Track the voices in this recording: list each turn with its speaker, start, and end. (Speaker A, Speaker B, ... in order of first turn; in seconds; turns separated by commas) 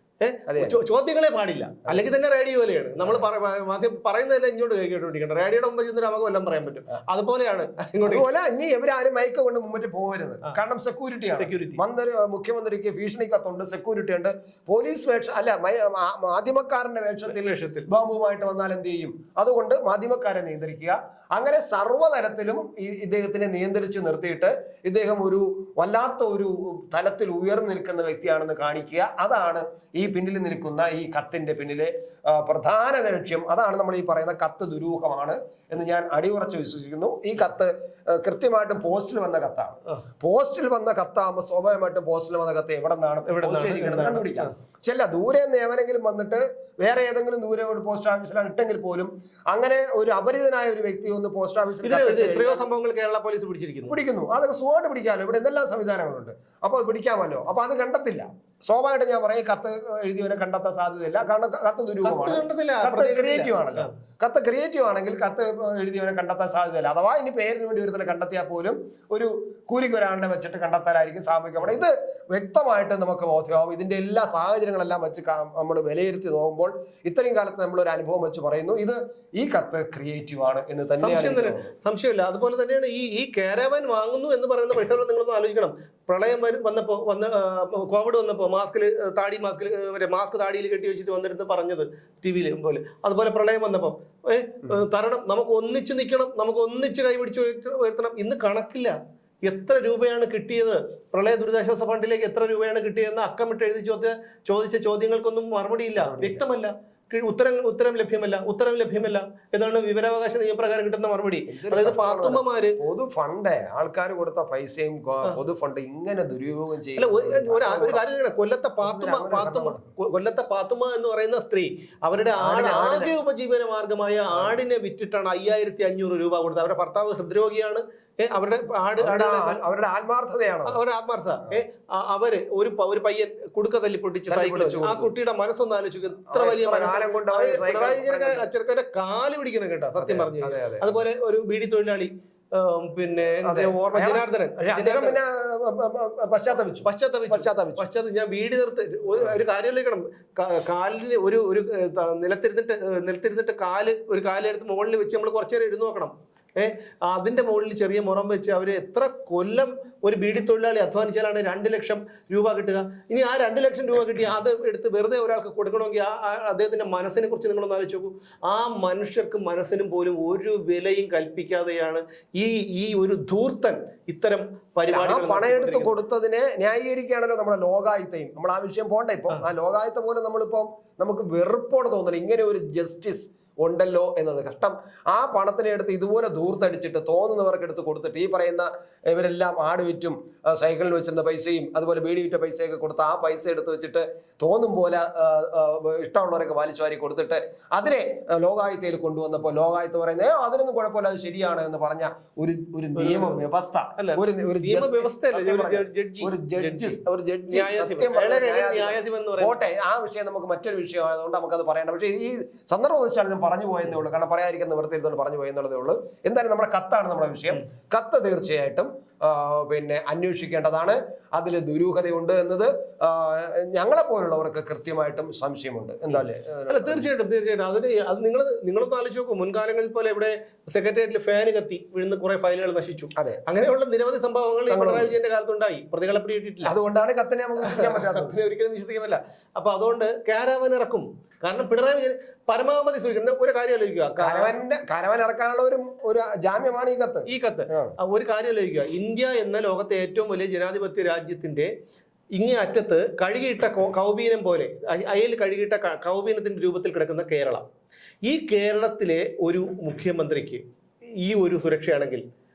Speaker A: 0.2-8.3, Speaker B: 0.5-0.8, Speaker B: 8.1-52.7, Speaker A: 11.3-11.8, Speaker A: 17.3-17.9, Speaker A: 43.3-44.5, Speaker A: 51.8-54.0, Speaker B: 53.9-81.7, Speaker A: 62.0-63.9, Speaker A: 81.0-112.8, Speaker B: 106.0-106.4, Speaker B: 111.5-118.0, Speaker A: 117.0-129.6, Speaker B: 118.8-119.9, Speaker B: 122.4-123.1, Speaker B: 124.3-124.6, Speaker B: 129.0-130.8, Speaker A: 130.7-145.2, Speaker B: 134.3-135.1, Speaker B: 136.3-138.5, Speaker B: 140.0-141.0, Speaker B: 143.4-147.9, Speaker A: 146.8-175.9, Speaker B: 174.9-227.1, Speaker A: 203.0-203.3, Speaker A: 204.0-207.0, Speaker A: 207.5-209.6, Speaker A: 226.1-236.8, Speaker B: 233.2-233.4, Speaker B: 234.7-235.1, Speaker B: 236.6-238.4, Speaker A: 237.6-244.5, Speaker B: 244.2-247.9, Speaker A: 247.3-251.7, Speaker A: 252.3-257.7, Speaker A: 258.2-260.6, Speaker A: 261.2-262.2